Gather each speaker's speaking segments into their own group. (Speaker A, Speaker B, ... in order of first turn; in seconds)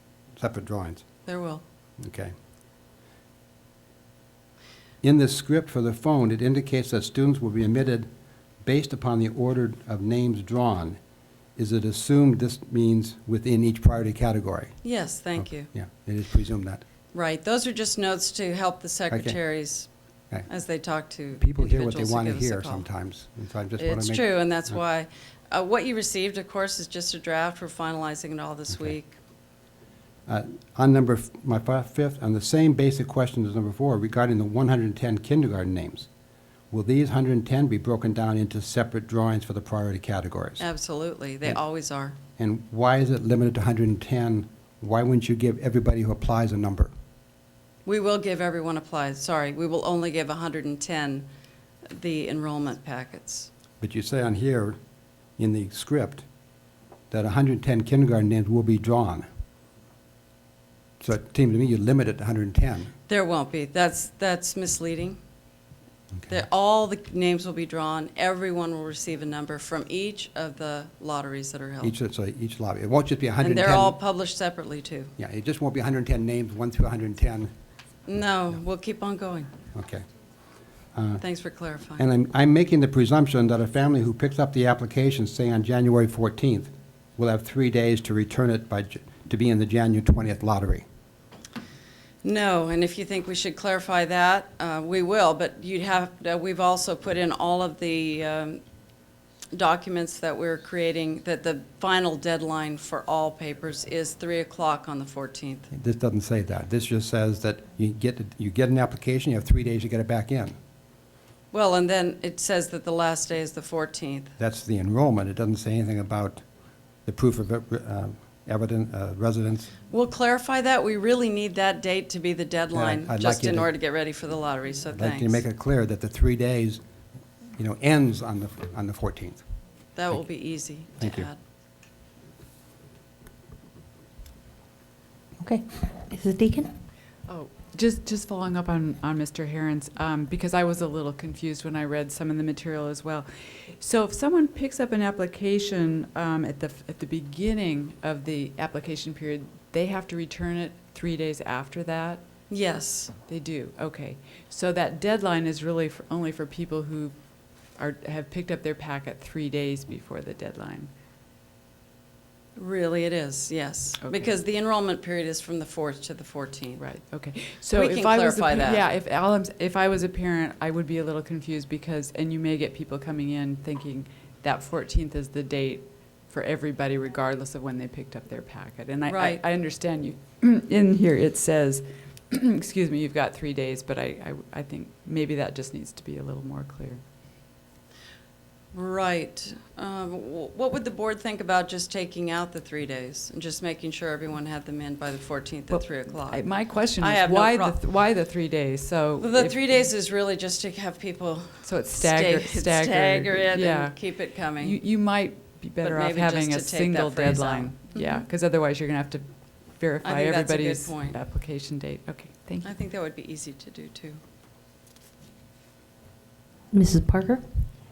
Speaker A: 0.4-1.0, 2.0-2.3, 5.0-8.1, 8.6-11.0, 11.6-14.8, 15.4-16.8, 19.1-19.4, 21.4-24.8, 28.7-28.9, 30.3-36.1, 36.7-40.7, 42.4-46.9, 53.8-54.8, 55.4-56.2, 57.1-59.3, 61.0-62.9, 66.2-66.4, 71.8-74.0, 75.2-77.5, 79.7-80.0, 80.9-81.2, 82.0-90.9, 105.7-110.6, 114.4-116.5, 117.1-119.7, 122.7-123.7, 125.0-126.8, 127.6-129.4, 131.0-131.3
Speaker B: 1.2-1.6, 14.8-15.7, 17.1-19.9, 20.5-22.9, 23.8-29.2, 40.6-42.2, 47.9-51.3, 51.9-53.5, 63.1-65.2, 66.3-71.9, 73.4-75.1, 78.1-79.5, 81.2-82.0, 92.2-98.6, 99.5-105.7, 111.5-114.3, 119.9-125.4, 130.0-131.4, 152.5-153.1, 162.6-166.8, 167.7-168.8, 179.1-179.4, 188.7-196.4, 197.0-197.8, 199.2-204.8, 205.8-208.2, 210.0-211.2, 212.6-214.2
Speaker C: 135.4-136.7, 216.7-217.4
Speaker D: 137.3-152.2, 153.2-157.1, 157.8-160.9, 166.8-187.0, 195.7-199.6, 201.6-204.0, 204.6-212.7